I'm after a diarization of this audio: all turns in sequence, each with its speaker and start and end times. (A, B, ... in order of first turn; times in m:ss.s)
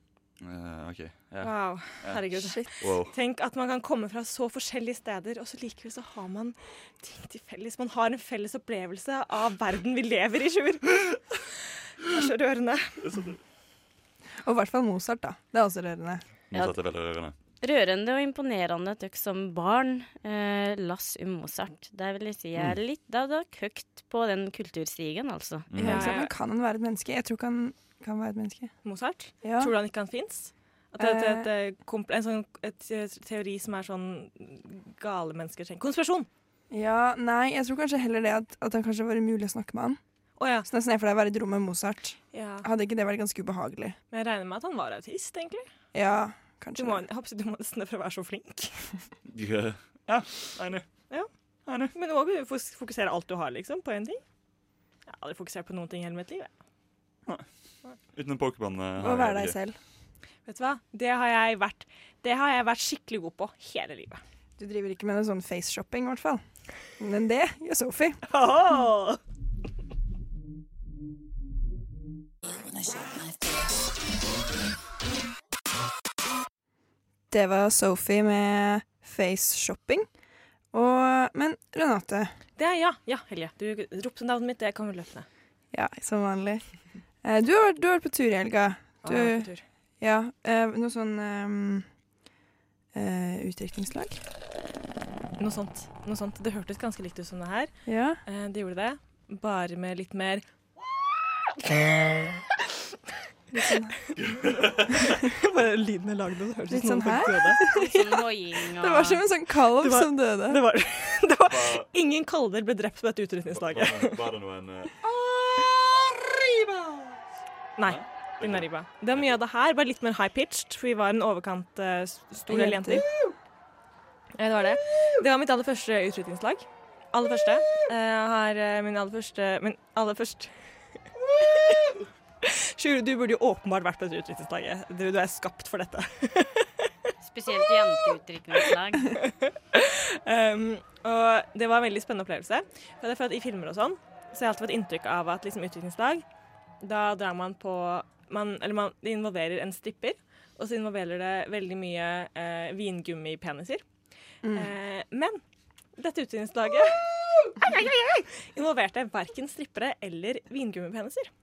0:00.4-0:02.2 A
0:01.4-0:11.2 B
0:02.4-0:02.7 C
0:02.8-0:03.1 A
0:12.0-0:13.0 B
0:13.0-0:13.4 A
0:14.4-0:16.2 C
0:16.5-0:17.3 A
0:17.6-0:25.7 D
0:25.7-0:26.2 A
0:25.8-0:28.7 C
0:25.8-0:26.3 B
0:28.8-0:36.3 B
0:29.4-0:29.7 C
0:31.0-0:31.5 C
0:36.7-0:40.0 C
0:40.4-0:40.7 B
0:40.6-0:44.0 C
0:42.3-0:42.7 B
0:44.1-0:45.7 B
0:45.9-0:47.0 C
0:46.8-0:48.9 B
0:49.3-0:50.9 A
0:51.7-0:51.9 A
0:51.9-0:54.2 B
0:55.1-0:56.5 B
0:58.1-0:59.6 A
0:59.0-0:59.8 C
1:00.5-1:04.2 B
1:04.6-1:06.4 C
1:07.0-1:08.2 C
1:08.3-1:09.2 B
1:17.3-1:20.1 C
1:20.7-1:22.4 C
1:22.6-1:25.3 B
1:25.7-1:26.6 C
1:27.2-1:31.9 C
1:29.0-1:29.6 B
1:32.9-1:34.2 C
1:35.4-1:37.7 B
1:37.9-1:38.2 C
1:38.2-1:40.4 B
1:43.5-1:44.0 C
1:44.1-1:45.2 A
1:45.3-1:47.6 B
1:46.7-1:50.6 C
1:47.7-1:49.2 D
1:49.8-1:54.3 B
1:51.5-1:51.9 A
1:53.5-1:55.0 A
1:55.0-1:56.8 C
1:57.8-2:03.1 B
1:57.8-1:59.3 A
2:02.5-2:03.1 C
2:04.4-2:10.5 B
2:11.4-2:16.9 B
2:17.2-2:19.2 D
2:19.0-2:26.2 B
2:26.8-2:33.8 B
2:34.4-2:34.7 C
2:34.5-2:35.4 B
2:36.0-2:41.3 B